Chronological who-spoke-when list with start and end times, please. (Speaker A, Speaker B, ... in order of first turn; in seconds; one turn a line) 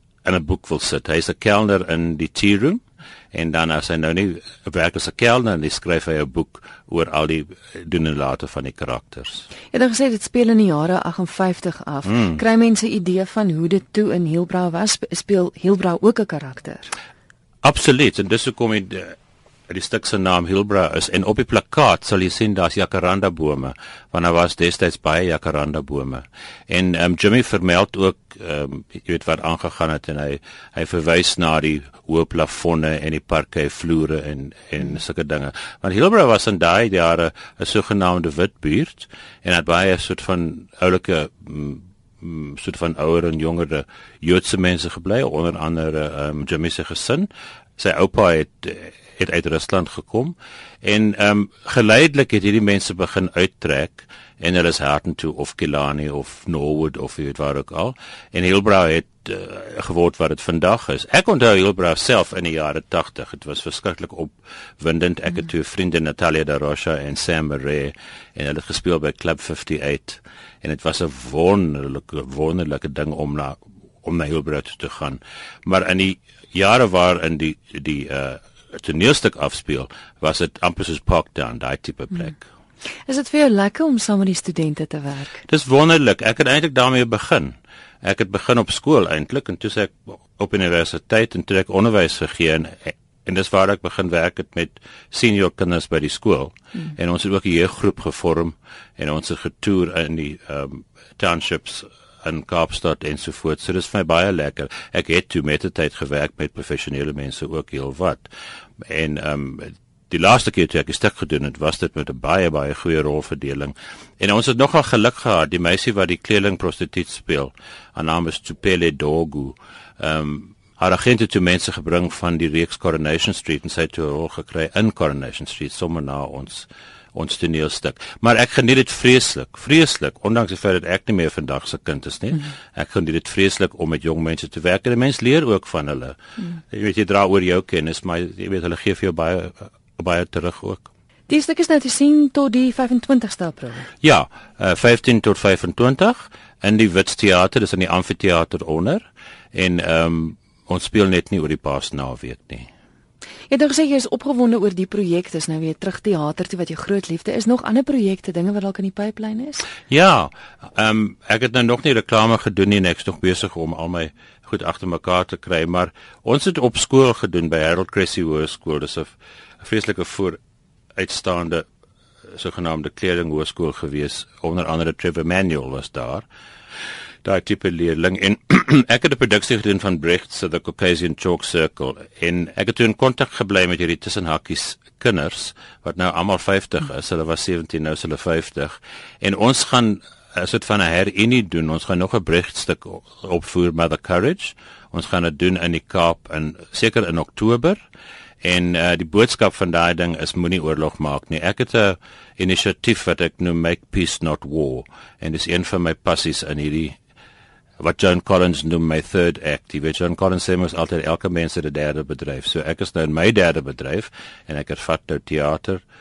Speaker A: 0.2-9.5
Speaker B: 9.7-16.9
Speaker A: 17.6-19.1
Speaker A: 19.7-82.5
Speaker B: 83.0-85.4
Speaker A: 85.5-108.3
Speaker A: 108.8-136.2
Speaker A: 136.7-140.9
Speaker B: 141.3-143.9
Speaker A: 144.0-152.7
Speaker B: 153.5-159.7
Speaker A: 159.9-170.4
Speaker A: 171.0-171.6
Speaker A: 172.3-176.2
Speaker A: 177.2-197.8
Speaker A: 198.4-207.0
Speaker A: 207.8-215.8